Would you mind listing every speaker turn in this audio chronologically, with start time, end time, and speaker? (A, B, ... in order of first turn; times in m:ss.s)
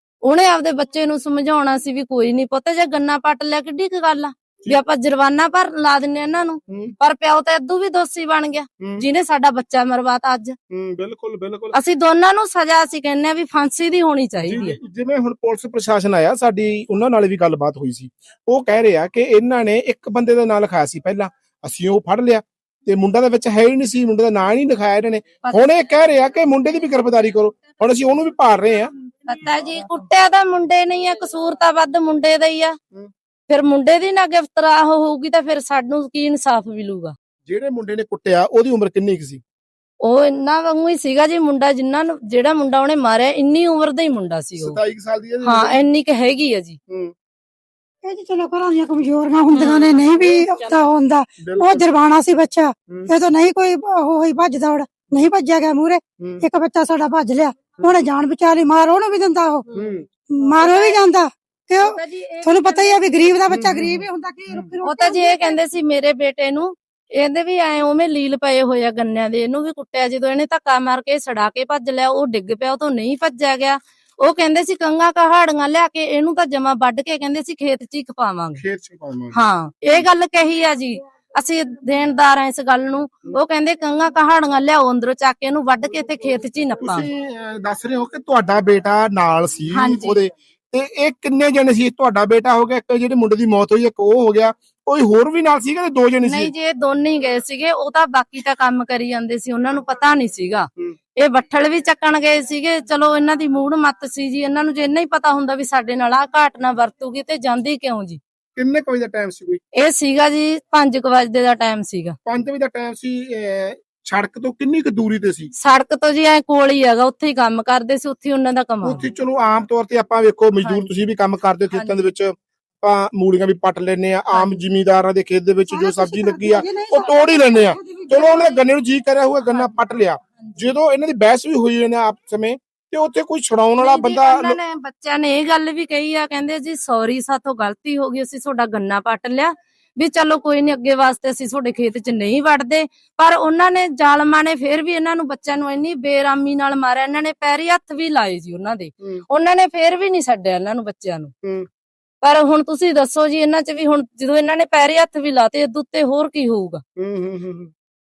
0:00.2-0:10.6 A
0:06.7-0:06.9 B
0:08.8-0:09.0 B
0:10.7-0:11.8 B
0:11.7-0:14.8 A
0:14.5-0:28.9 B
0:29.3-0:32.8 A
0:33.5-0:37.2 A
0:37.4-0:39.4 B
0:40.0-0:44.8 A
0:44.6-0:45.8 B
0:45.4-0:46.8 A
0:48.1-0:59.6 C
0:49.6-0:50.4 B
0:51.4-0:51.9 B
0:59.7-1:00.1 B
1:00.4-1:05.6 C
1:00.6-1:01.0 A
1:01.8-1:03.4 A
1:03.5-1:04.7 B
1:04.8-1:18.6 A
1:18.6-1:19.4 B
1:19.3-1:27.1 A
1:26.8-1:36.5 B
1:29.7-1:30.2 A
1:36.2-1:48.2 A
1:48.6-1:49.6 B
1:49.8-1:52.2 A
1:52.3-1:55.5 B
1:55.6-1:59.0 A
1:58.8-2:14.6 B
2:00.6-2:00.9 A
2:01.7-2:02.1 A
2:04.3-2:04.6 A
2:05.7-2:08.6 C
2:13.8-2:31.3 A
2:32.2-2:36.8 A
2:37.0-2:37.7 B